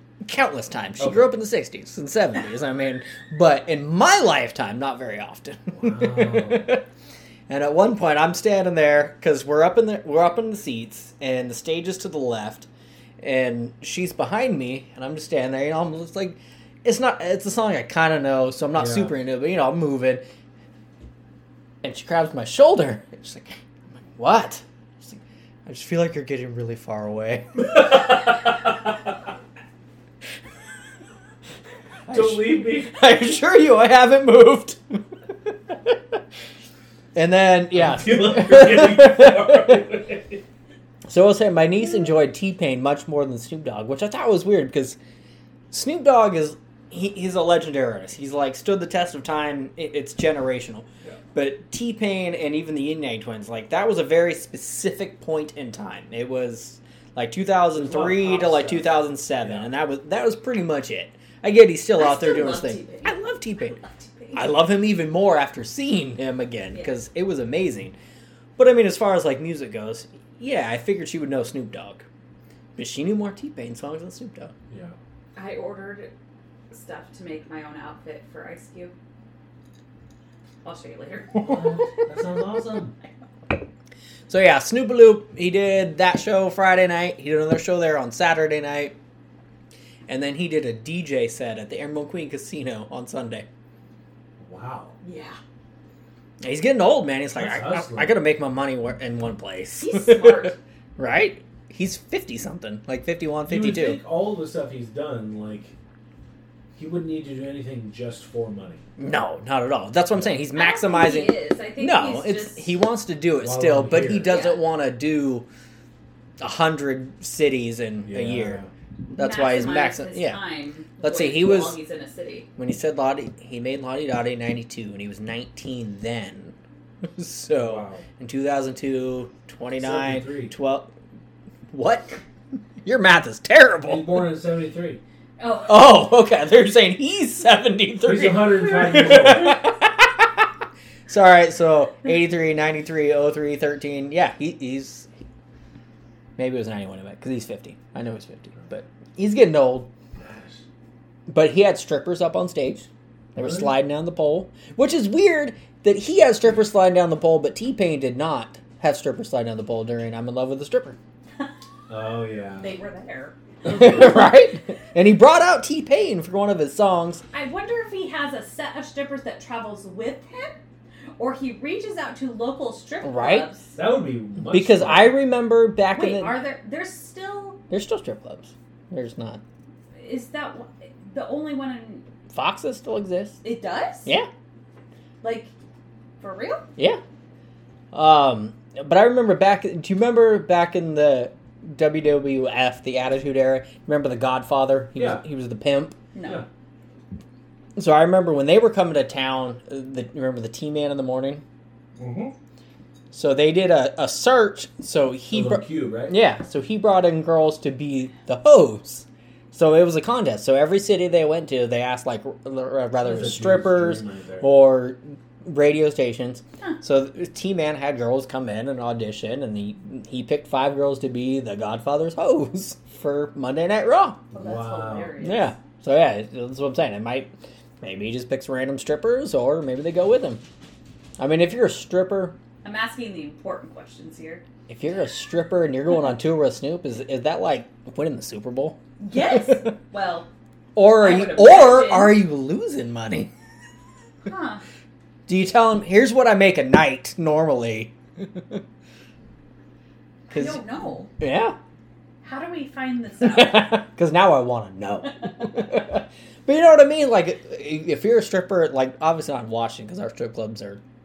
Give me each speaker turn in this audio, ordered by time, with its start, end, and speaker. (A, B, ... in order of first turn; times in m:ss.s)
0:00.2-0:06.8 A
0:01.0-0:01.3 B
0:05.7-0:06.7 B
0:07.5-0:12.7 A
0:13.2-0:20.2 A
0:18.7-0:19.1 B
0:21.8-0:27.9 A
0:27.6-0:28.7 B
0:32.0-0:36.2 A
0:32.1-0:33.0 B
0:37.1-0:39.8 A
0:37.7-0:40.4 B
0:41.1-0:45.0 A
0:45.7-1:03.8 A
0:57.7-0:59.7 B
1:01.9-1:03.2 C
1:03.7-1:04.5 C
1:04.3-1:08.0 A
1:08.6-1:12.0 A
1:12.8-1:14.5 A
1:14.7-1:15.0 B
1:15.3-1:16.1 C
1:16.7-1:18.9 C
1:20.6-1:21.8 C
1:21.4-1:22.9 B
1:24.3-1:29.0 A
1:30.1-1:33.5 A
1:34.4-1:35.0 B
1:35.0-1:35.4 C
1:36.4-1:44.0 A
1:37.3-1:38.2 B
1:39.8-1:40.6 C
1:43.4-1:45.7 B
1:46.8-1:48.8 B
1:49.0-1:55.5 A
1:50.5-1:52.7 C
1:53.4-1:54.3 B
1:54.2-1:54.6 C
1:56.4-1:58.6 A
1:58.0-1:58.7 B
1:59.1-2:00.4 A
1:59.2-2:02.5 C
2:01.0-2:01.8 A
2:02.6-2:10.9 A
2:07.5-2:08.0 B
2:09.8-2:10.5 B
2:11.7-2:12.2 A
2:12.8-2:14.3 A
2:13.8-2:15.0 B
2:15.4-2:16.0 C
2:15.6-2:20.5 A
2:18.0-2:19.6 B
2:21.1-2:25.1 A
2:26.4-2:29.9 A
2:30.2-2:30.6 B
2:31.3-2:41.0 A
2:33.4-2:33.7 B
2:41.9-2:42.7 B
2:42.6-2:43.4 C
2:43.6-2:47.2 A
2:47.3-2:50.6 C
2:51.2-2:53.8 C
2:53.0-2:53.5 A
2:53.7-2:55.2 B
2:54.5-2:56.4 A
2:55.9-2:57.6 C
2:57.7-2:59.4 A
2:59.9-3:02.0 C
3:02.3-3:03.4 A
3:03.4-3:04.1 C
3:05.2-3:05.5 C
3:06.2-3:06.6 C
3:07.9-3:16.0 A
3:15.0-3:15.2 B
3:16.1-3:16.4 C
3:17.8-3:21.4 A
3:22.0-3:22.3 B
3:23.1-3:44.2 A
3:25.3-3:26.2 B
3:33.0-3:34.5 B
3:44.3-3:45.5 C
3:44.3-3:45.2 B
3:45.2-3:50.4 A
3:51.2-3:52.4 A
3:52.6-3:54.4 C
3:54.7-3:59.7 A
3:59.0-4:00.3 C
4:00.7-4:03.3 A
4:01.0-4:02.2 C
4:04.2-4:04.6 C
4:05.3-4:08.6 A
4:10.3-4:10.6 A
4:10.3-4:11.1 C
4:11.2-4:11.6 A
4:12.2-4:13.8 C
4:13.2-4:20.8 A